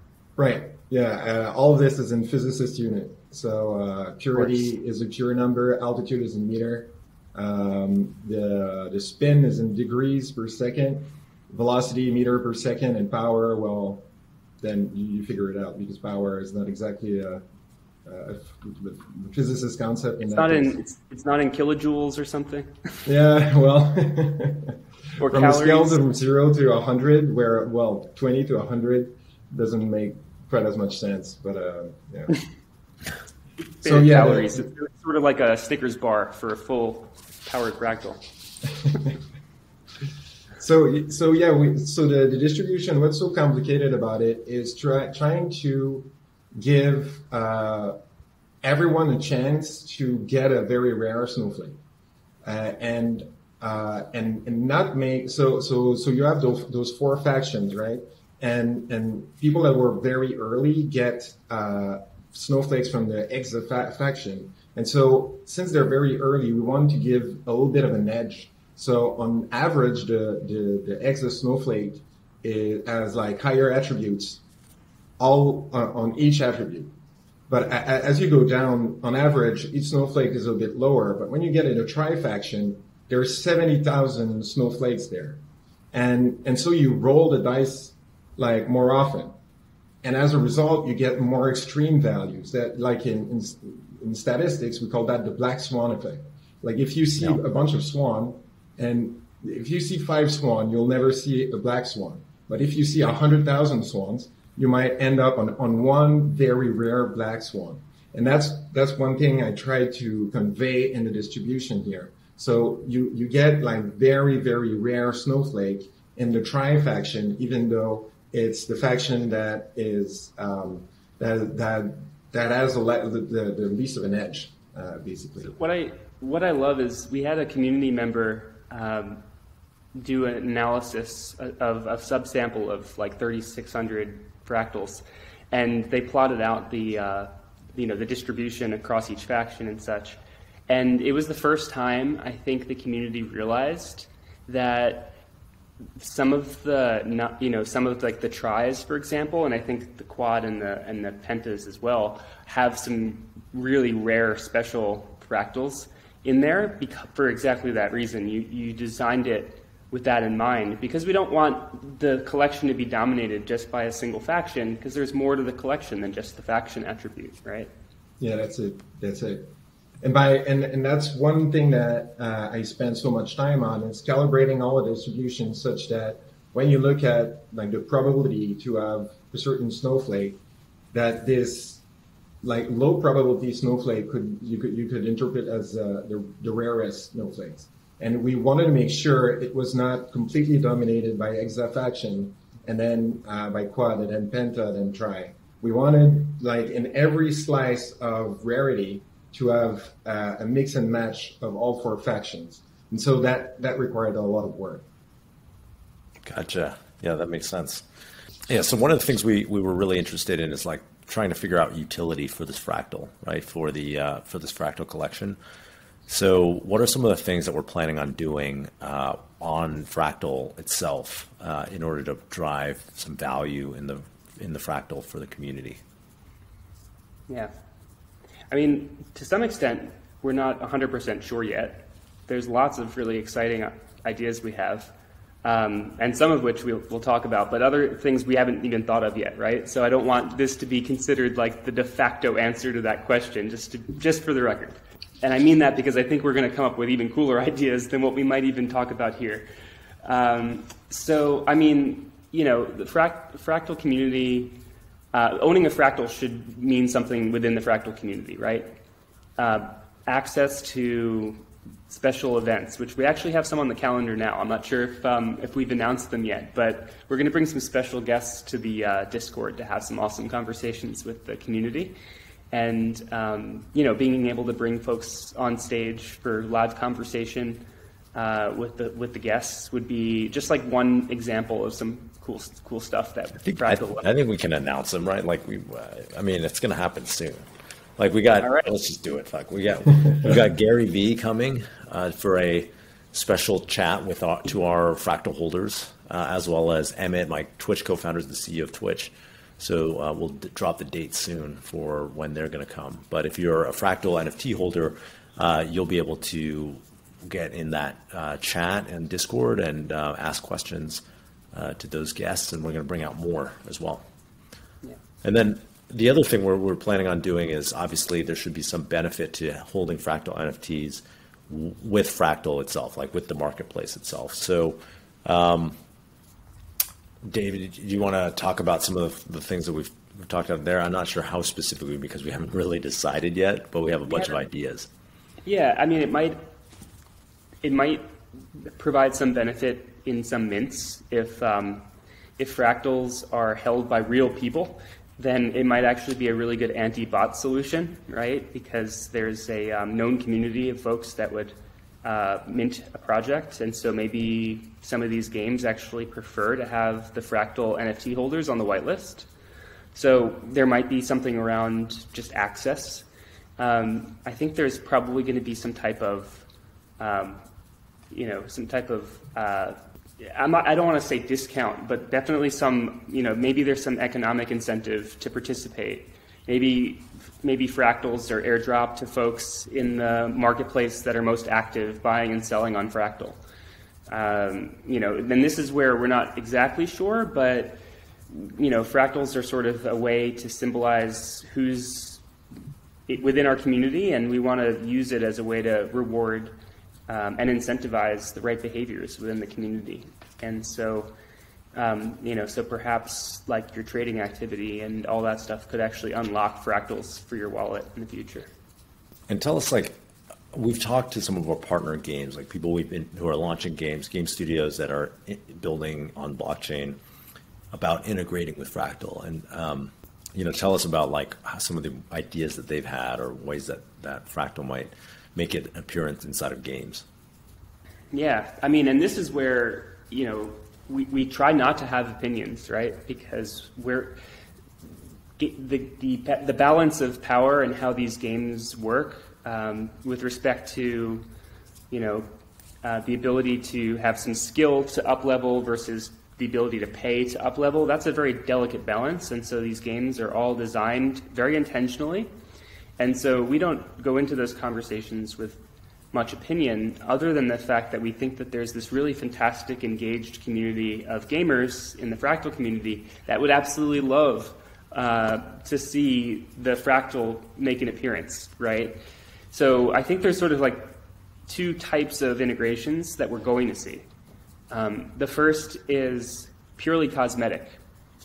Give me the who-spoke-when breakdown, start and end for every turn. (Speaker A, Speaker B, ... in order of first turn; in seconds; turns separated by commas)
Speaker A: 0.4-14.1, Speaker B: 4.3-4.7, Speaker A: 14.6-17.4, Speaker A: 18.1-20.7, Speaker B: 20.3-22.7, Speaker A: 23.1-32.4, Speaker B: 25.2-26.0, Speaker B: 33.8-38.2, Speaker A: 33.8-34.6, Speaker A: 40.6-48.0, Speaker A: 48.6-51.8, Speaker A: 52.4-74.4, Speaker A: 75.2-76.9, Speaker A: 77.5-85.4, Speaker A: 85.9-89.3, Speaker A: 90.0-125.5, Speaker B: 125.4-129.2, Speaker B: 129.9-145.2, Speaker B: 146.0-167.7, Speaker A: 168.2-180.4, Speaker A: 180.9-181.8, Speaker A: 182.4-204.8, Speaker C: 206.2-207.8, Speaker C: 208.5-215.4, Speaker C: 216.1-225.8, Speaker B: 228.5-234.9, Speaker B: 235.4-249.5, Speaker B: 250.0-254.6, Speaker B: 255.1-258.7, Speaker B: 259.4-271.9, Speaker B: 272.5-277.6, Speaker B: 278.1-284.1, Speaker C: 283.4-287.4, Speaker C: 288.0-311.0, Speaker B: 288.4-288.7, Speaker C: 311.5-314.0, Speaker C: 315.2-325.8, Speaker C: 327.2-334.9, Speaker B: 334.1-334.4, Speaker B: 335.4-336.4, Speaker B: 337.6-338.0, Speaker B: 338.6-341.8, Speaker B: 342.4-359.3, Speaker B: 359.9-363.1, Speaker B: 363.6-366.4, Speaker B: 367.0-367.4, Speaker B: 368.1-383.4, Speaker B: 384.1-392.2, Speaker B: 393.1-396.5, Speaker B: 397.1-401.1, Speaker B: 401.7-408.5, Speaker C: 409.3-409.9, Speaker C: 410.5-417.0, Speaker C: 417.7-427.0, Speaker B: 428.1-434.1, Speaker B: 435.4-441.2, Speaker B: 441.9-442.3, Speaker B: 442.8-452.3, Speaker B: 453.0-455.6, Speaker B: 456.1-469.0, Speaker B: 469.5-470.9, Speaker B: 471.5-474.1, Speaker B: 474.7-477.8